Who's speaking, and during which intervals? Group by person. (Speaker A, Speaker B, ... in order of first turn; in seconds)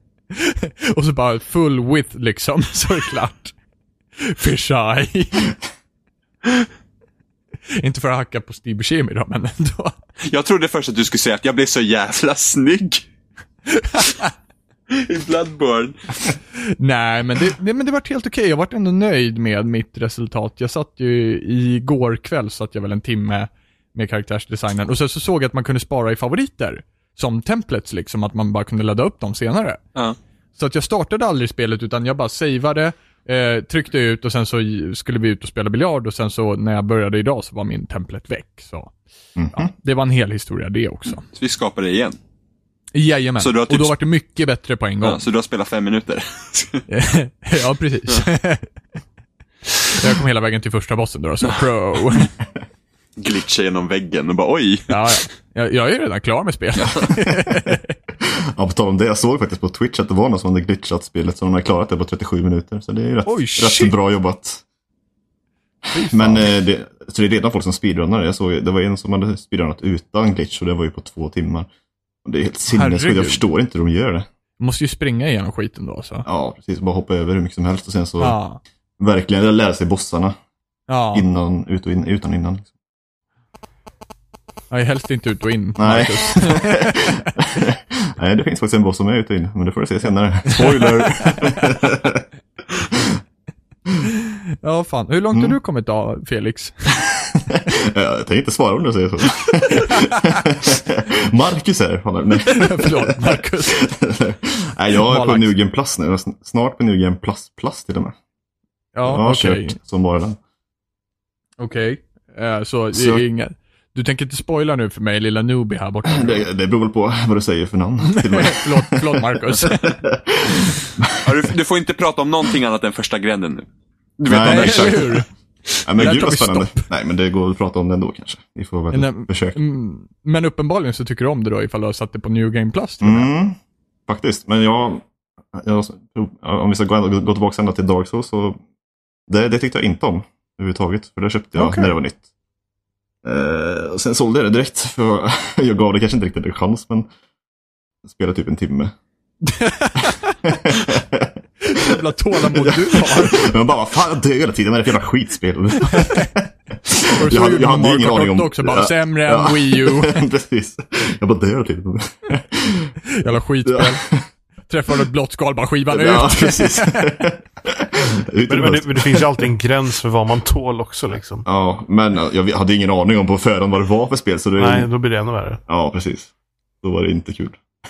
Speaker A: 0.3-3.5, 4.2-5.5, 7.8-9.9, 13.7-14.3, 16.6-29.8, 30.6-38.9, 39.5-41.2, 42.9-45.2, 46.9-48.6, 50.0-52.3, 54.9-57.9, 63.2-63.9, 65.9-66.5, 72.7-73.4, 74.6-76.2, 78.2-78.6, 80.9-81.2, 84.7-87.2, 90.5-91.6, 94.0-97.0, 99.8-100.1, 102.5-103.8, 105.1-105.5, 108.9-109.8, 111.6-116.5, 118.0-120.0, 124.4-125.2, 125.9-126.8, 128.9-133.3, 141.5-141.9, 149.4-150.4, 151.6-153.5, 155.9-156.3, 157.1-160.2, 163.2-164.0, 164.7-167.2
Speaker B: 10.2-13.0, 14.9-15.9, 41.3-42.2, 43.4-43.9, 45.0-46.8, 53.2-54.9, 121.2-123.7, 124.2-125.1
Speaker C: 39.4-39.7, 58.2-64.6, 65.9-71.7, 72.2-74.3, 76.2-78.3, 79.0-80.3, 81.1-82.7, 85.8-92.2, 97.5-108.1, 109.0-110.4, 112.9-113.2, 116.1-121.3, 124.2-125.2, 125.8-129.6, 133.0-138.6, 139.3-142.2, 143.2-147.1, 148.0-148.9, 150.4-162.9, 163.6-164.2, 165.9-169.4, 171.4-174.9, 175.7-176.3, 176.8-177.6
Speaker D: 168.5-171.4, 174.6-175.6